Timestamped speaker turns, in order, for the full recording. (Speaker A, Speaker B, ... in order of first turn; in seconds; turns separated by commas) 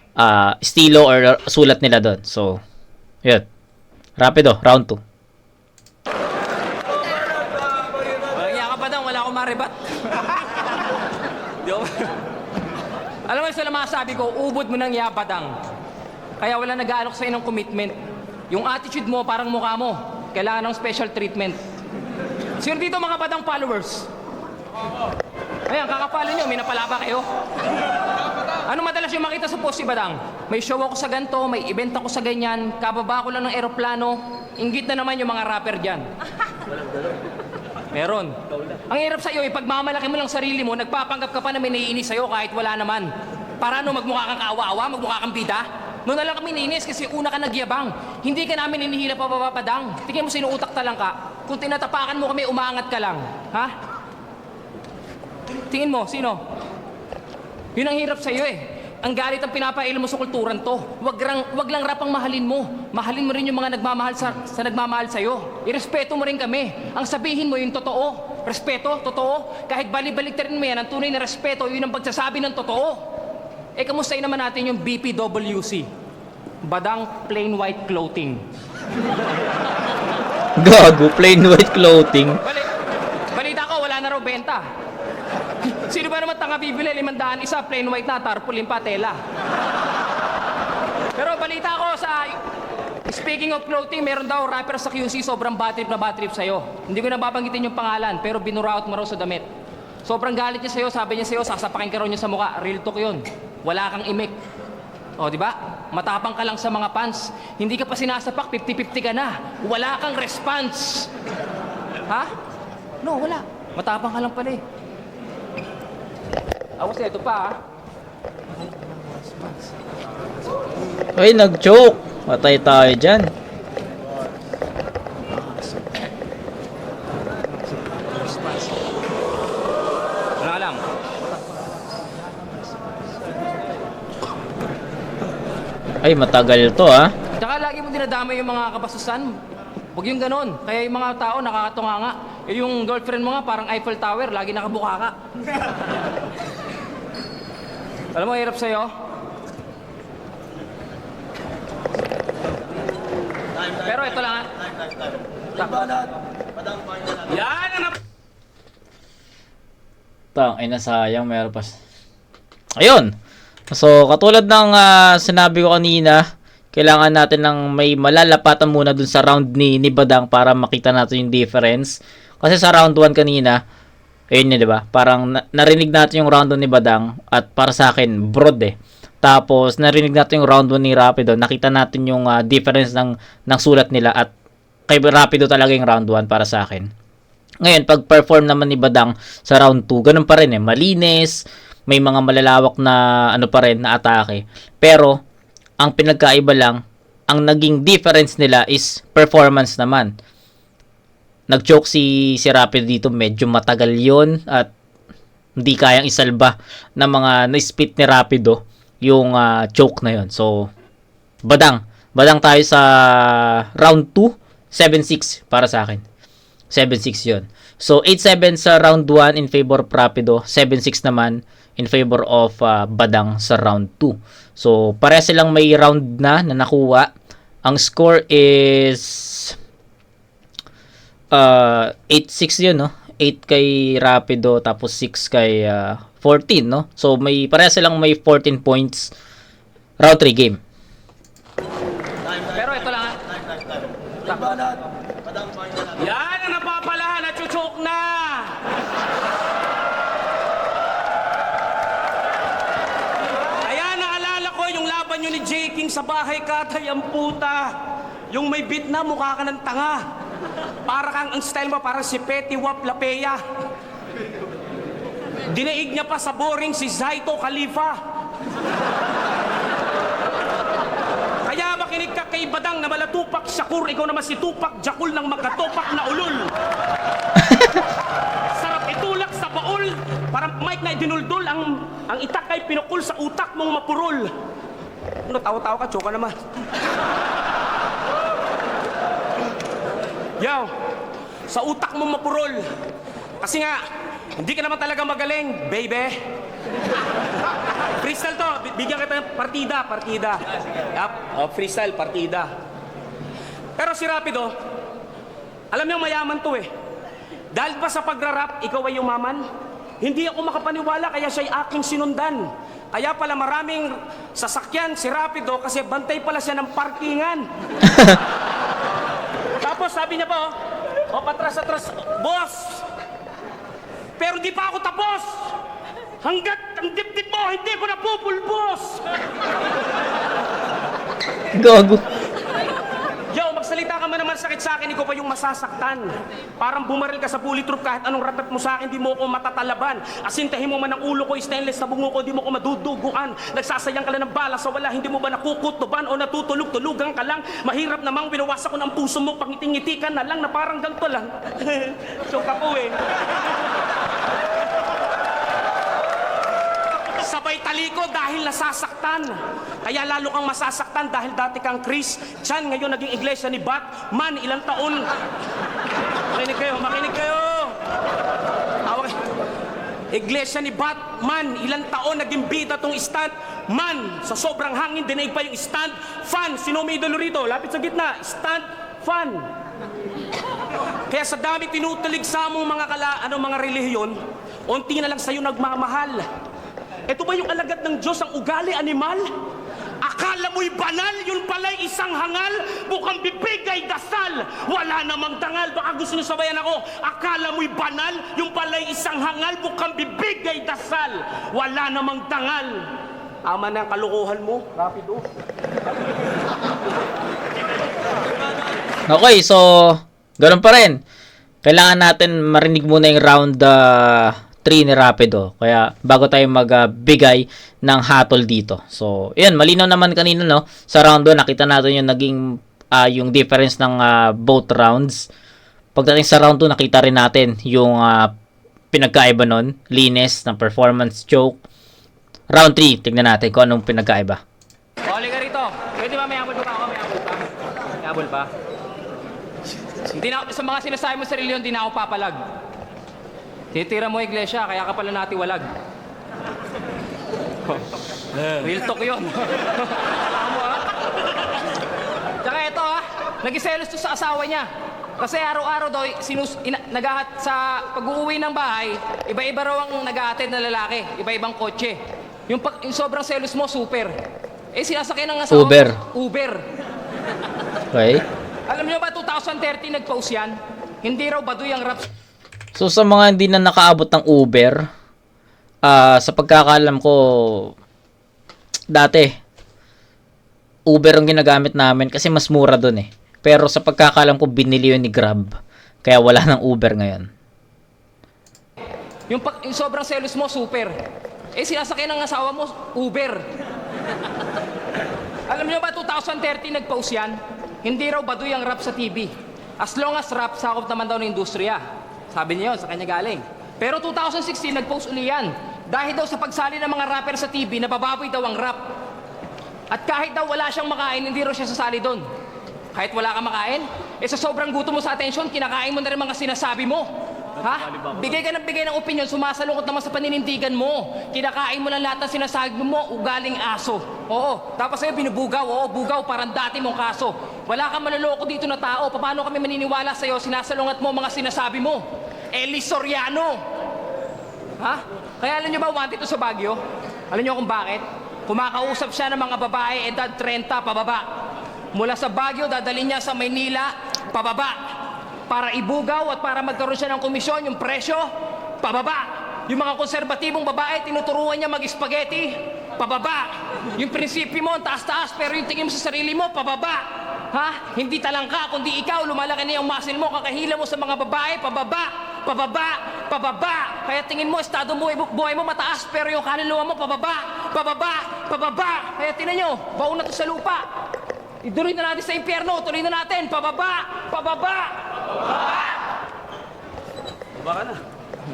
Speaker A: 0.2-2.6, Speaker A: 4.2-5.0, Speaker B: 8.3-10.4, Speaker B: 11.6-12.1, Speaker B: 13.3-15.5, Speaker B: 16.4-17.9, Speaker B: 18.5-21.6, Speaker B: 22.6-24.1, Speaker B: 25.7-27.2, Speaker B: 28.7-36.1, Speaker B: 37.9-38.3, Speaker B: 38.9-53.7, Speaker B: 55.7-56.4, Speaker B: 57.8-73.0, Speaker B: 73.8-75.9, Speaker B: 76.6-78.4, Speaker A: 80.6-82.4, Speaker B: 82.4-82.7, Speaker B: 83.3-84.6, Speaker B: 85.7-89.2, Speaker B: 91.2-92.4, Speaker B: 93.0-99.5, Speaker B: 100.0-104.3, Speaker B: 105.2-111.1, Speaker B: 112.1-112.3, Speaker B: 113.0-114.6, Speaker B: 116.8-117.6, Speaker A: 121.2-123.3, Speaker B: 130.4-130.8, Speaker A: 136.0-137.1, Speaker B: 137.4-139.3, Speaker B: 139.9-145.1, Speaker B: 148.1-148.9, Speaker B: 153.8-154.5, Speaker C: 157.2-157.9, Speaker A: 160.3-161.8, Speaker A: 162.8-163.1, Speaker A: 163.7-173.6, Speaker A: 174.3-184.3, Speaker A: 184.9-186.9, Speaker A: 187.6-195.2, Speaker A: 195.8-200.1, Speaker A: 201.5-204.7, Speaker A: 205.6-210.7, Speaker A: 211.4-216.0, Speaker A: 216.7-227.1, Speaker A: 227.6-229.6, Speaker A: 231.3-239.1, Speaker A: 240.0-240.6, Speaker B: 242.5-243.2, Speaker B: 244.2-244.7, Speaker C: 245.9-248.6, Speaker C: 253.6-257.7, Speaker C: 258.3-260.0, Speaker C: 260.9-263.4, Speaker C: 265.5-268.0, Speaker C: 271.4-276.5, Speaker C: 278.5-284.3, Speaker C: 285.3-286.3, Speaker C: 290.4-290.7, Speaker C: 291.5-292.6, Speaker C: 293.4-293.8, Speaker C: 294.4-296.1, Speaker C: 298.0-300.4, Speaker C: 300.9-302.5, Speaker C: 303.8-304.5, Speaker C: 305.7-306.7, Speaker C: 307.5-309.4, Speaker C: 310.0-317.4, Speaker C: 319.6-320.5, Speaker C: 321.1-322.8, Speaker C: 324.2-325.5, Speaker C: 326.2-329.0, Speaker A: 331.5-332.0, Speaker C: 333.3-353.0, Speaker C: 357.2-365.1, Speaker C: 366.3-367.8, Speaker C: 368.9-369.1, Speaker C: 370.1-379.5, Speaker C: 381.1-384.1, Speaker C: 384.7-386.2, Speaker C: 387.1-389.3, Speaker C: 390.0-402.9, Speaker C: 403.5-405.2, Speaker A: 409.1-411.0, Speaker A: 411.6-425.3, Speaker A: 425.9-428.3, Speaker A: 428.9-431.6, Speaker A: 432.5-434.4, Speaker B: 435.1-438.5, Speaker B: 440.1-442.4, Speaker B: 443.7-445.7, Speaker B: 448.5-450.8, Speaker B: 452.4-454.7, Speaker B: 455.2-464.1, Speaker B: 464.8-466.6, Speaker A: 465.5-466.0, Speaker A: 467.9-468.2, Speaker B: 468.7-472.1, Speaker A: 472.7-474.9, Speaker A: 475.8-477.7, Speaker A: 478.9-479.4, Speaker A: 480.9-487.3, Speaker B: 489.3-490.9, Speaker B: 491.5-493.4, Speaker B: 495.5-508.8, Speaker B: 509.9-512.2, Speaker B: 512.9-517.1, Speaker B: 517.6-533.6, Speaker B: 534.8-536.8, Speaker B: 537.3-541.2, Speaker B: 541.9-544.8, Speaker B: 545.5-548.3, Speaker B: 548.8-570.8, Speaker B: 571.6-574.9, Speaker C: 577.6-578.0